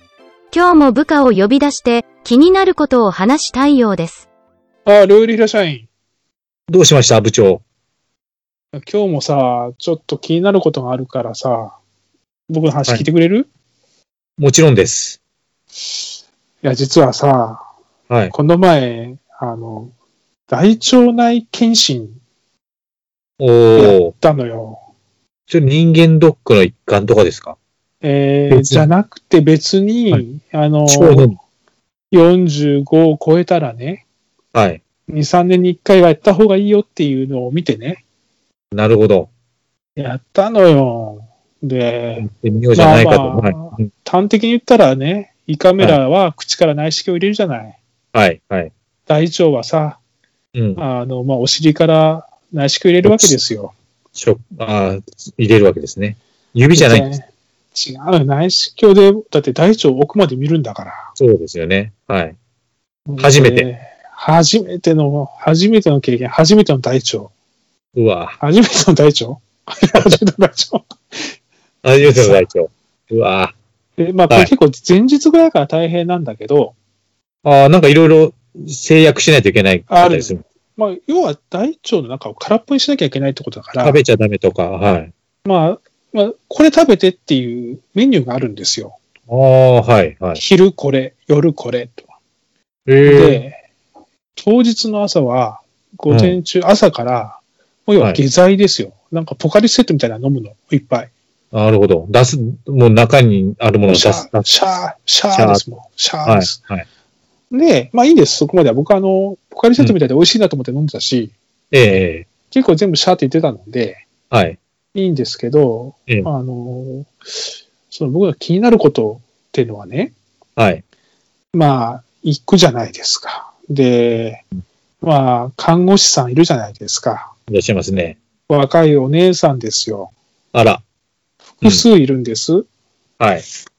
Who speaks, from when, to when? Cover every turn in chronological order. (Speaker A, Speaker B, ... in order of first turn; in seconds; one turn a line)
Speaker A: 0.5-4.2
Speaker B: 4.8-5.9
Speaker C: 6.7-7.6
Speaker B: 8.8-11.8
Speaker B: 12.5-13.5
Speaker C: 14.4-15.2
Speaker B: 16.6-17.6
Speaker C: 18.1-18.3
Speaker B: 18.3-19.9
Speaker B: 20.5-22.2
Speaker C: 23.4-24.1
Speaker B: 23.8-24.8
Speaker C: 25.5-27.6
Speaker B: 28.0-31.3
Speaker C: 28.5-28.9
Speaker C: 30.9-31.4
Speaker B: 32.1-34.0
Speaker C: 34.5-34.8
Speaker B: 35.1-38.0
Speaker C: 38.7-39.3
Speaker B: 40.0-47.8
Speaker C: 42.2-43.9
Speaker C: 48.1-48.7
Speaker B: 49.1-50.0
Speaker C: 50.5-50.8
Speaker B: 50.8-53.7
Speaker C: 53.0-53.4
Speaker C: 54.1-57.1
Speaker B: 56.7-61.1
Speaker C: 61.2-62.4
Speaker B: 63.1-67.3
Speaker C: 63.2-63.7
Speaker C: 68.0-68.4
Speaker B: 68.4-71.3
Speaker C: 71.8-73.5
Speaker B: 72.0-72.4
Speaker B: 74.0-76.8
Speaker C: 77.4-80.4
Speaker B: 79.9-84.0
Speaker C: 83.8-85.1
Speaker B: 85.5-89.0
Speaker C: 89.3-90.4
Speaker B: 90.4-92.0
Speaker C: 92.9-93.4
Speaker B: 93.0-93.6
Speaker B: 94.4-101.1
Speaker C: 96.1-96.4
Speaker C: 101.5-104.5
Speaker B: 103.9-106.6
Speaker C: 105.3-105.6
Speaker C: 106.2-106.8
Speaker B: 107.5-111.3
Speaker C: 111.7-112.3
Speaker B: 112.5-114.0
Speaker C: 114.3-114.6
Speaker B: 114.9-117.1
Speaker B: 117.9-120.2
Speaker C: 120.6-120.8
Speaker B: 121.5-124.4
Speaker B: 125.0-127.3
Speaker C: 127.5-128.2
Speaker B: 128.5-130.1
Speaker C: 130.5-130.8
Speaker B: 131.6-132.7
Speaker C: 133.2-133.4